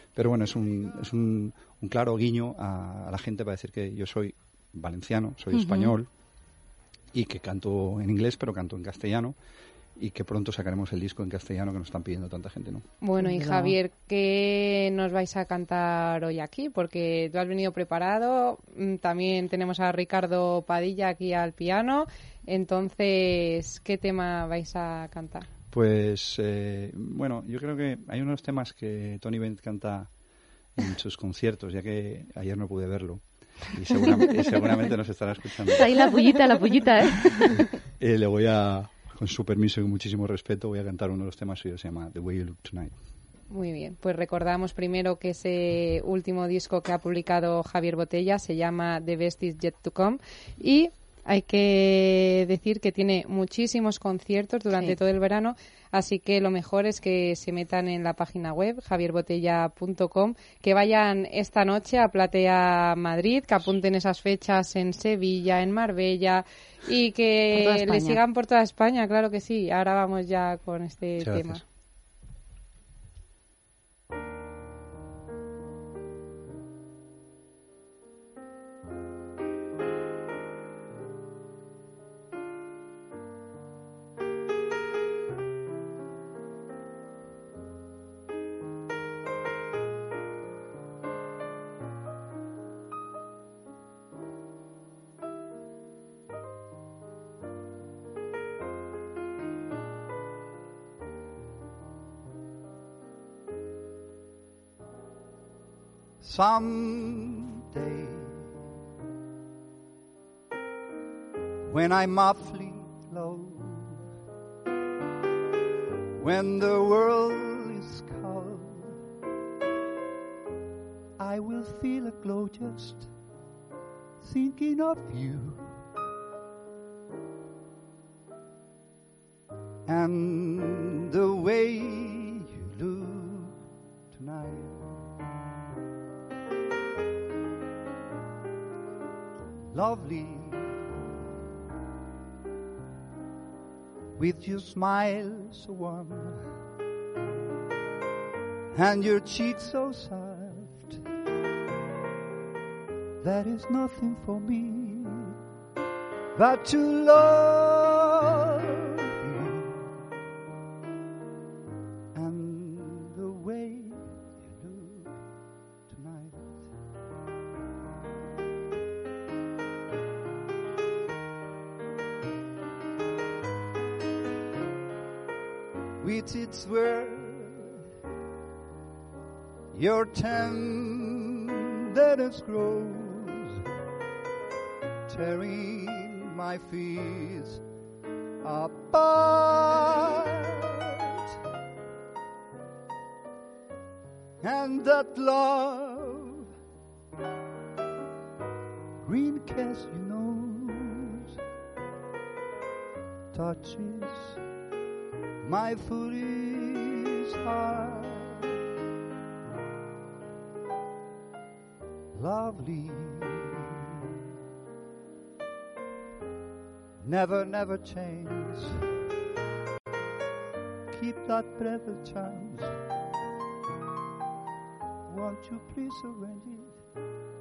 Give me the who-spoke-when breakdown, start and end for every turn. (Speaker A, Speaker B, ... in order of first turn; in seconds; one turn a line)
Speaker A: 0.1-6.1
Speaker B: 5.5-5.9
Speaker A: 7.1-9.4
Speaker A: 10.0-12.9
Speaker C: 13.0-25.5
Speaker B: 13.2-13.8
Speaker A: 25.7-30.1
Speaker A: 30.8-36.1
Speaker B: 35.7-37.6
Speaker A: 38.0-43.0
Speaker C: 43.5-71.6
Speaker B: 67.5-68.2
Speaker A: 71.2-71.6
Speaker D: 106.2-108.5
Speaker D: 111.7-114.1
Speaker D: 116.2-119.0
Speaker D: 121.2-123.1
Speaker D: 124.2-125.8
Speaker D: 129.9-133.6
Speaker D: 134.1-135.0
Speaker D: 139.7-140.9
Speaker D: 144.2-146.4
Speaker D: 148.7-151.0
Speaker D: 153.2-155.3
Speaker D: 156.3-158.7
Speaker D: 159.2-159.9
Speaker D: 162.1-165.3
Speaker D: 165.9-166.8
Speaker D: 176.0-177.8
Speaker D: 179.7-183.6
Speaker D: 185.1-187.6
Speaker D: 188.4-190.4
Speaker D: 194.4-196.4
Speaker D: 199.0-201.4
Speaker D: 203.3-204.4
Speaker D: 205.4-208.4
Speaker D: 212.1-213.7
Speaker D: 217.0-218.8
Speaker D: 220.9-222.8
Speaker D: 225.1-226.8